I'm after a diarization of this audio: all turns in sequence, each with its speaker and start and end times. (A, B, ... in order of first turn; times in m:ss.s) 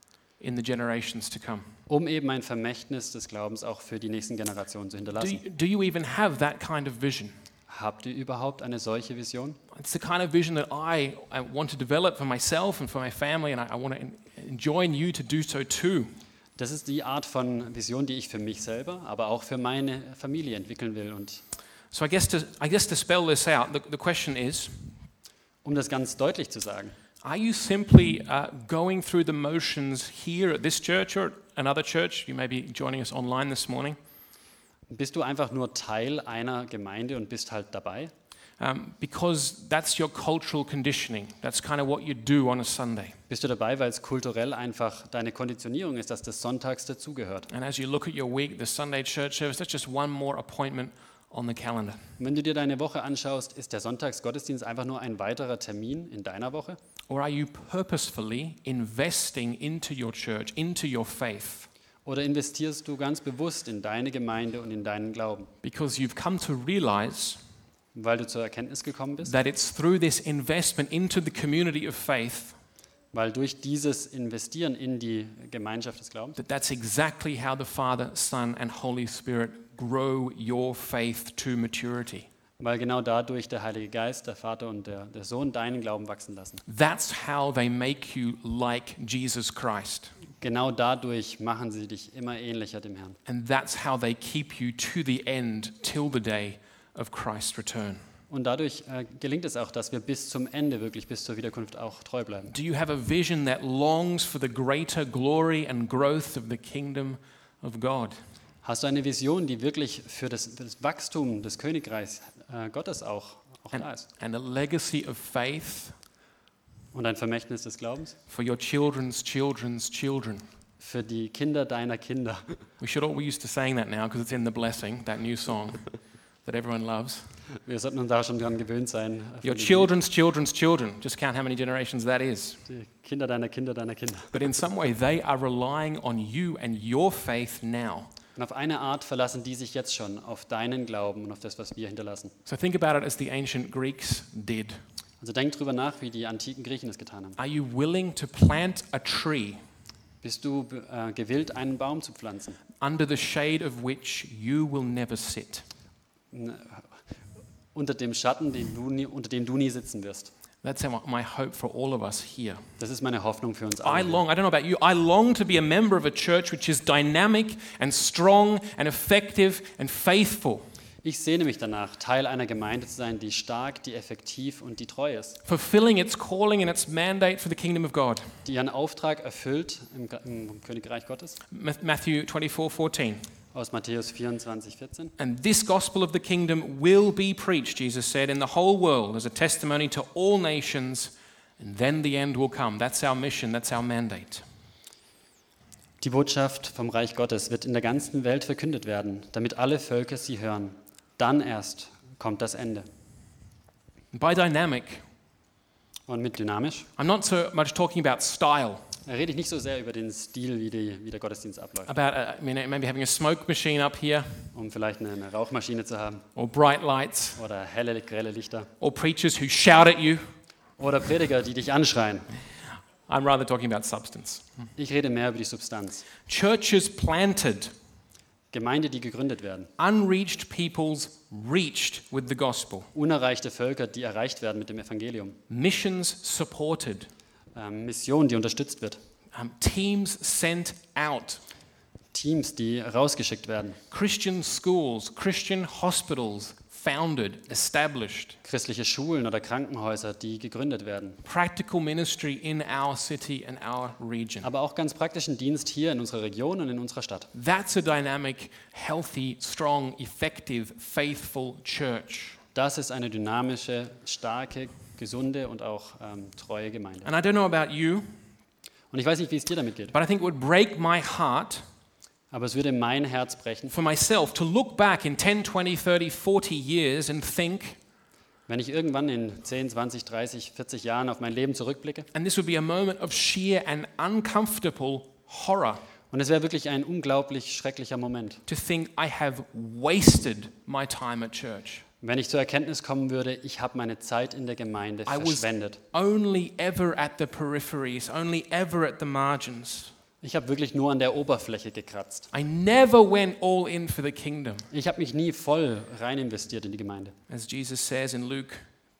0:00.4-0:01.7 A
0:01.9-0:05.4 B
0:05.2-0:07.3 A
0:07.7-0:09.6 B
0:09.7-0:16.1 A
0:16.6-0:21.4 B
0:21.9-0:24.9 A
0:25.6-0:26.9 B
0:27.2-0:34.0 A
0:34.9-0:38.1 B
0:38.6-0:43.2 A
0:43.3-0:47.5 B
0:47.5-0:52.0 A
0:52.2-0:56.8 B
0:57.1-1:01.7 A
1:02.0-1:05.5 B
1:05.6-1:07.4 A
1:07.9-1:09.3 B
1:09.2-1:12.5 A
1:13.1-1:16.4 B
1:16.4-1:22.3 A
1:22.6-1:26.6 B
1:26.7-1:30.1 A
1:30.4-1:33.2 B
1:33.2-1:38.0 A
1:38.3-1:42.5 B
1:42.5-1:48.2 A
1:48.6-1:54.1 B
1:53.7-1:56.0 A
1:56.9-1:58.2 B
1:58.3-2:00.4 A
2:00.8-2:02.6 B
2:02.8-2:05.8 A
2:06.4-2:07.2 A
2:07.6-2:09.9 B
2:09.4-2:12.6 A
2:12.7-2:14.4 B
2:14.3-2:18.1 A
2:18.4-2:22.3 B
2:22.4-2:24.8 A
2:25.2-2:27.4 B
2:27.4-2:29.6 A
2:30.2-2:32.6 B
2:32.8-2:35.6 A
2:36.3-2:36.9 B
2:37.7-2:40.3 B
2:40.6-2:42.6 A
2:42.8-2:44.2 B
2:43.8-2:50.6 A
2:51.0-2:55.4 B
2:55.4-2:58.3 A
2:58.4-3:01.4 B
3:01.5-3:03.2 A
3:03.5-3:05.1 B
3:05.2-3:14.4 A
3:16.0-3:22.8 B
3:24.1-3:25.0 A
3:26.1-3:26.9 B
3:27.0-3:28.8 A
3:29.0-3:31.9 B
3:31.8-3:34.5 A
3:34.5-3:36.2 B
3:36.4-3:37.4 A
3:37.4-3:38.7 B
3:38.8-3:40.2 A
3:40.8-3:42.3 B
3:43.1-3:44.5 A
3:44.8-3:46.0 B
3:46.2-3:47.7 A
3:48.5-3:49.7 B
3:49.8-3:52.9 A
3:52.9-3:55.4 B
3:55.5-3:57.1 A
3:57.5-3:59.0 B
3:59.3-4:01.4 A
4:02.1-4:03.8 B
4:03.9-4:08.4 A
4:08.4-4:11.2 B
4:11.2-4:14.5 A
4:14.4-4:17.3 B
4:17.3-4:22.4 A
4:22.5-4:27.1 B
4:27.0-4:28.1 A
4:28.9-4:29.9 B
4:29.9-4:31.6 A
4:32.3-4:33.7 B
4:33.7-4:37.8 A
4:38.5-4:42.1 B
4:42.1-4:45.8 A
4:46.1-4:48.4 B
4:48.5-4:51.8 A
4:52.0-4:55.8 B
4:55.0-4:59.9 A
5:00.2-5:02.3 B
5:02.3-5:04.7 A
5:04.7-5:07.1 B
5:07.3-5:08.6 A